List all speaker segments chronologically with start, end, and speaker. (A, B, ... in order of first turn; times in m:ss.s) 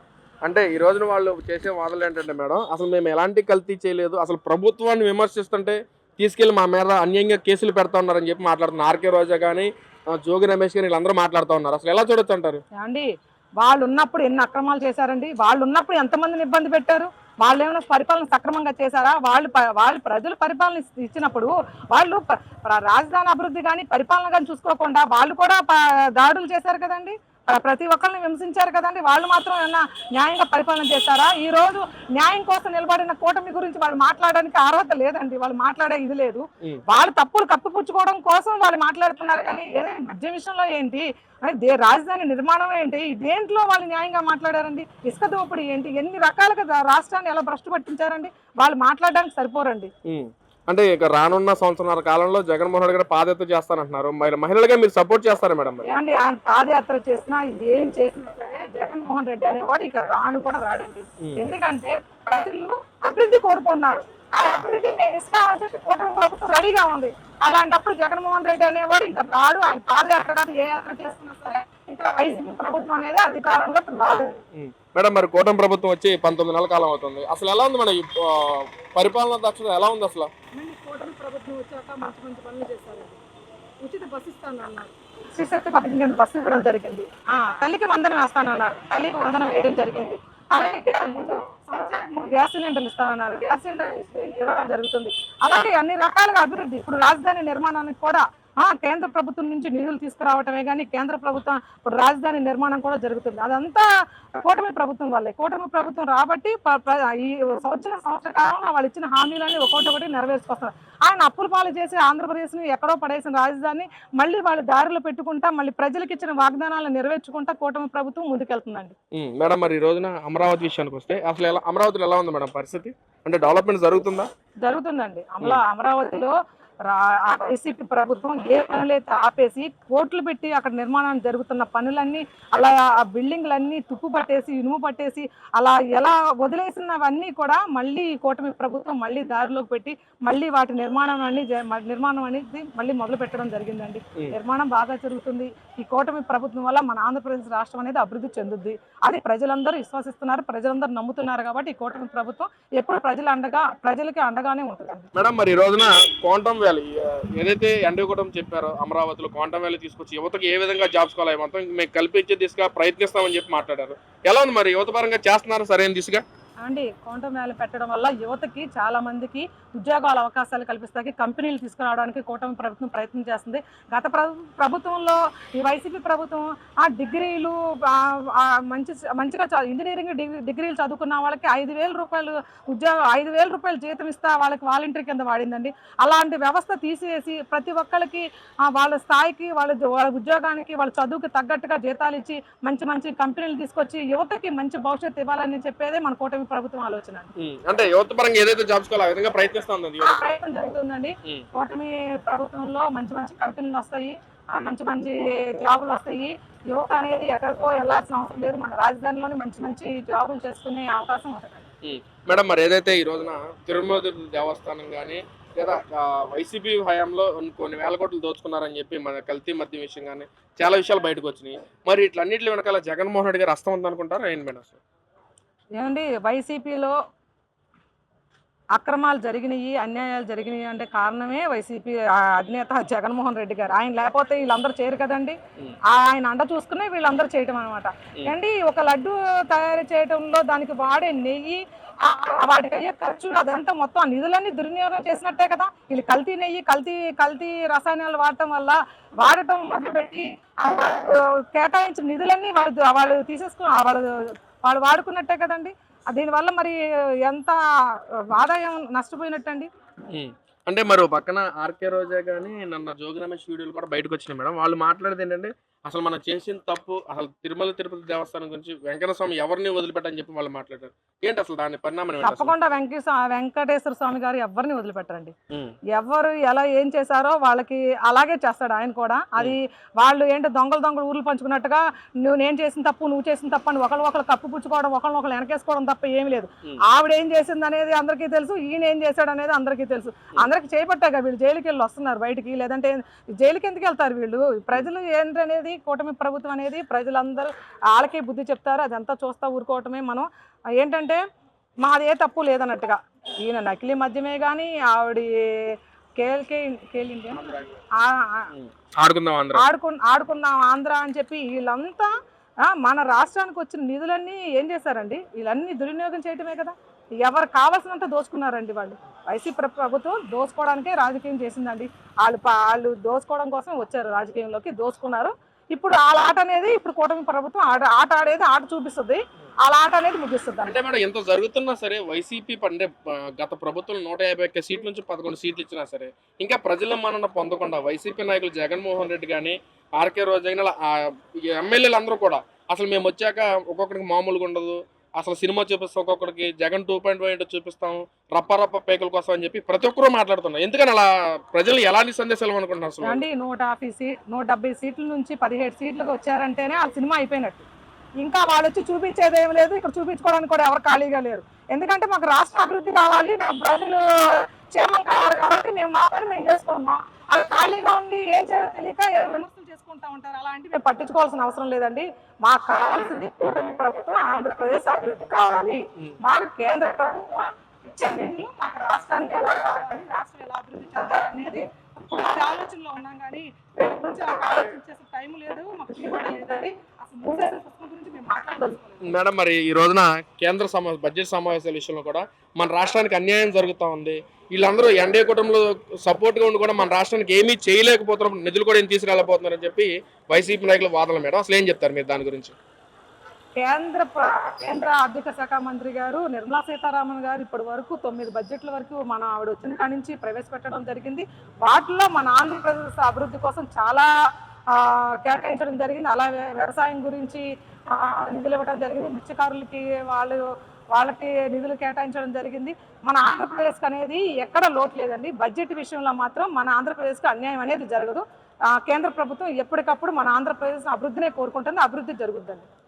0:00.4-0:12.6 A
0:12.8-0:13.1 B
0:13.6-0:49.9 B
0:50.1-0:55.8 A
0:55.9-1:14.4 B
1:14.6-1:20.3 A
1:20.5-1:23.2 B
1:23.8-1:59.0 B
1:59.1-2:04.3 A
2:04.6-2:06.3 B
2:06.8-2:35.1 B
2:35.2-2:46.2 A
2:46.6-3:17.3 B
3:17.4-3:20.2 A
3:20.0-3:31.6 B
3:31.8-3:44.8 A
3:45.8-3:47.0 B
3:48.8-3:55.4 B
3:55.9-4:19.7 B
4:20.1-4:32.5 A
4:32.2-4:35.3 B
4:35.9-5:00.3 B
5:00.8-5:01.2 B
5:01.8-5:08.5 B
5:07.4-5:07.7 A
5:08.5-5:09.6 A
5:09.6-5:12.1 B
5:12.6-5:30.8 B
5:30.7-5:53.2 A
5:53.0-5:57.6 B
5:58.2-6:29.1 B
6:29.0-6:42.6 A
6:43.6-6:54.1 B
6:54.7-7:12.7 B